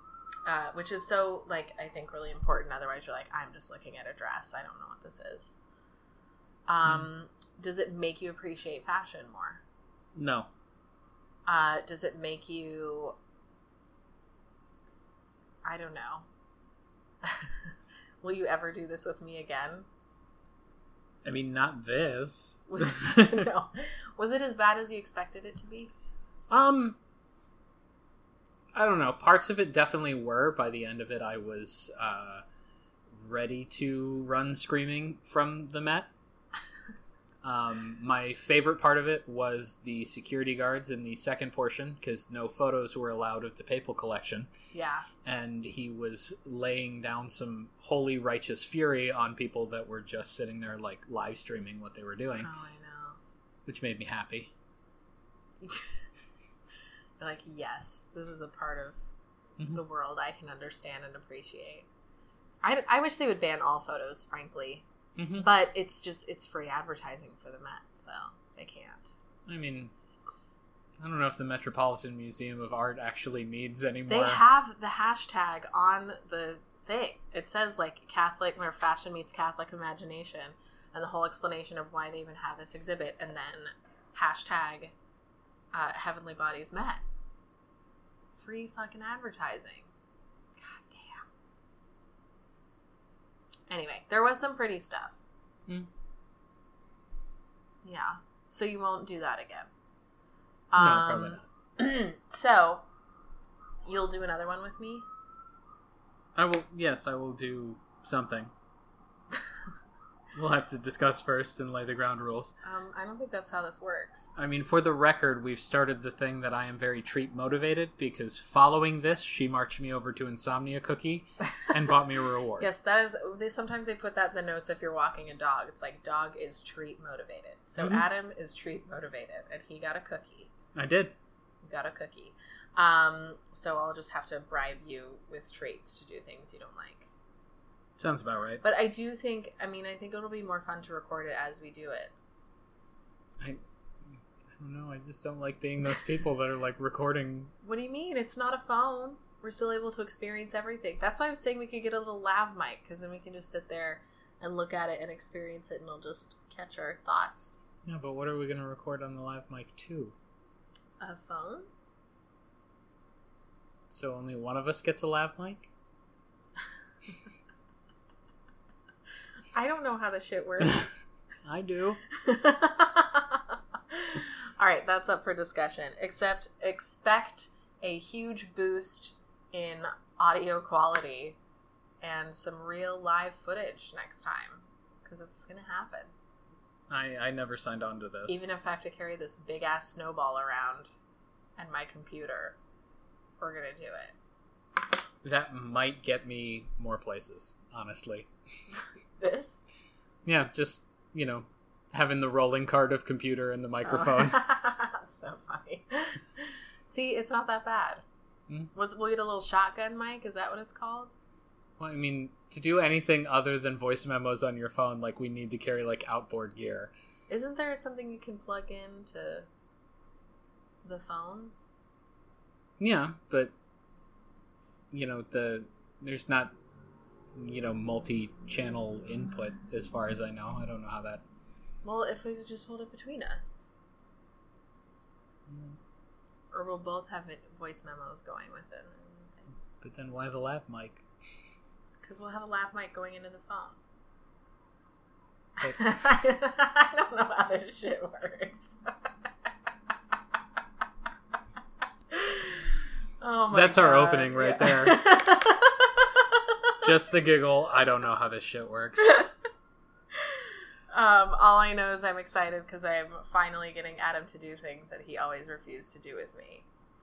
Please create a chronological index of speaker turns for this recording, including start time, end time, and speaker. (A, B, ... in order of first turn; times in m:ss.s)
0:00.4-0:05.5 A
0:06.7-0:09.6 A
0:10.1-0:10.5 B
0:11.5-0:13.1 A
0:15.6-0:16.2 A
0:17.2-0:17.6 A
0:18.2-0:19.9 A
0:21.2-0:23.5 B
0:22.7-0:25.9 A
0:26.5-0:27.0 B
0:28.7-0:32.4 B
0:33.2-0:36.1 B
0:37.4-0:44.5 B
0:44.7-0:45.0 A
0:45.2-0:52.5 B
0:52.4-0:53.2 A
0:53.6-0:54.5 B
0:55.6-0:55.9 A
0:57.2-0:59.0 A
0:59.7-1:01.9 A
1:02.6-1:04.8 A
1:05.2-1:05.4 B
1:05.4-1:09.1 A
1:09.5-1:09.9 B
1:11.0-1:14.4 B
1:14.1-1:24.9 A
1:25.7-1:27.0 A
1:28.4-1:29.9 A
1:30.6-1:31.2 A
1:33.7-1:35.2 A
1:37.8-1:39.7 A
1:40.7-1:42.8 A
1:40.8-1:41.4 B
1:43.8-1:45.0 A
1:46.3-1:48.5 B
1:50.3-1:52.5 B
1:52.6-1:54.3 A
1:54.4-2:02.7 B
2:02.6-2:10.5 A
2:07.8-2:08.0 B
2:10.7-2:11.1 B
2:11.6-2:17.1 A
2:18.0-2:18.6 B
2:18.6-2:22.1 A
2:24.6-2:27.5 B
2:27.6-2:37.6 A
2:37.8-2:40.1 B
2:41.0-2:41.7 A
2:43.9-2:45.7 B
2:49.5-2:50.9 A
2:51.4-2:52.0 B
2:52.1-3:01.4 A
3:02.0-3:06.1 A
3:06.9-3:08.4 B
3:08.3-3:10.9 A
3:11.6-3:12.6 A
3:13.4-3:14.1 A
3:15.2-3:18.3 B
3:19.2-3:19.6 A
3:20.2-3:24.4 B
3:23.8-3:28.0 A
3:28.7-3:31.1 A
3:31.8-3:36.9 B
3:37.3-3:39.5 A
3:40.8-3:41.5 A
3:42.8-3:43.5 B
3:44.9-3:46.5 B
3:47.3-3:51.2 B
3:51.8-3:53.7 A
3:55.5-3:55.8 B
3:56.5-3:59.5 A
3:59.8-4:01.0 B
4:02.0-4:03.8 A
4:05.7-4:09.0 A
4:12.1-4:12.7 A
4:13.2-4:16.2 A
4:13.5-4:15.0 B
4:16.8-4:19.3 B
4:20.2-4:26.6 A